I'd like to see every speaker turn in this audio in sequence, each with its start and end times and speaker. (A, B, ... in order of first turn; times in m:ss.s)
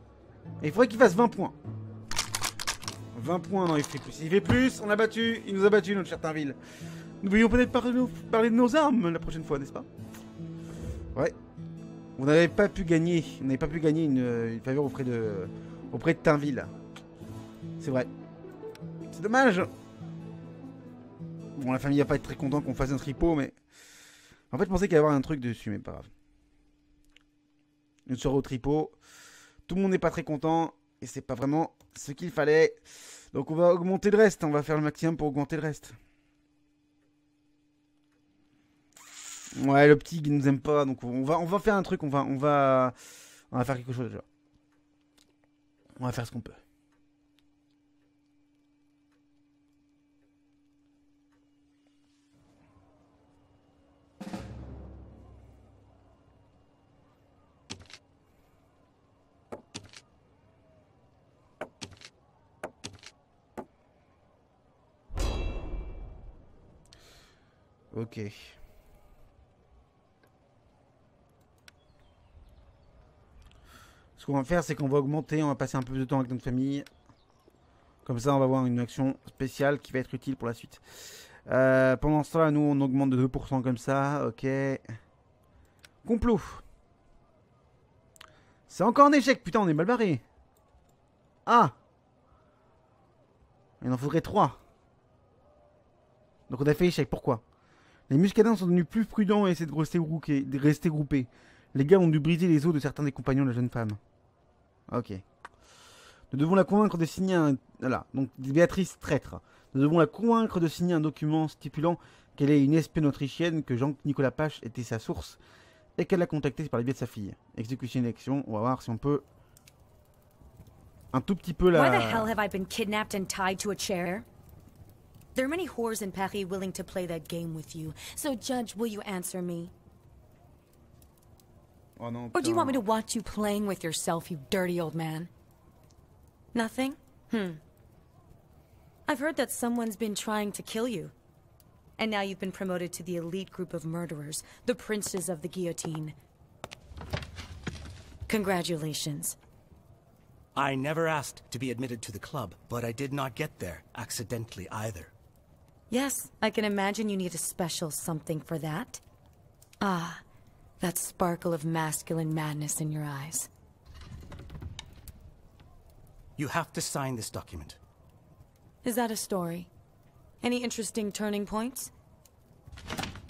0:00.6-0:01.6 A
0:03.2-0:06.6 A
0:07.2-0:09.9 A
0:12.2-0:16.7 A
0:17.8-0:18.1 A
0:19.1-0:19.7 A
0:21.6-0:23.6 A
0:24.5-0:26.1 A
0:28.1-0:29.0 A
0:29.7-0:32.8 A
0:33.3-0:36.0 A
0:39.6-0:42.9 A
0:43.5-0:44.2 A
0:46.0-0:46.6 A
1:07.9-1:08.6 A
1:14.2-1:16.9 A
1:18.0-1:20.8 A
1:21.5-1:24.8 A
1:26.0-1:26.6 A
1:28.7-1:30.2 A
1:31.5-1:31.7 A
1:33.8-1:34.6 A
1:36.5-1:37.4 A
1:38.1-1:44.0 A
1:44.9-1:45.2 A
1:46.3-1:55.4 A
1:56.0-1:59.2 A
2:01.1-2:02.3 A
2:01.7-2:04.3 B
2:05.4-2:09.7 B
2:12.0-2:12.8 A
2:12.3-2:15.3 B
2:16.5-2:17.6 B
2:19.1-2:21.1 B
2:22.0-2:26.2 B
2:28.3-2:29.4 B
2:30.6-2:35.1 C
2:35.9-2:39.0 B
2:39.8-2:40.2 B
2:40.8-2:43.5 B
2:46.4-2:47.8 C
2:48.8-2:49.7 B
2:50.4-2:51.9 B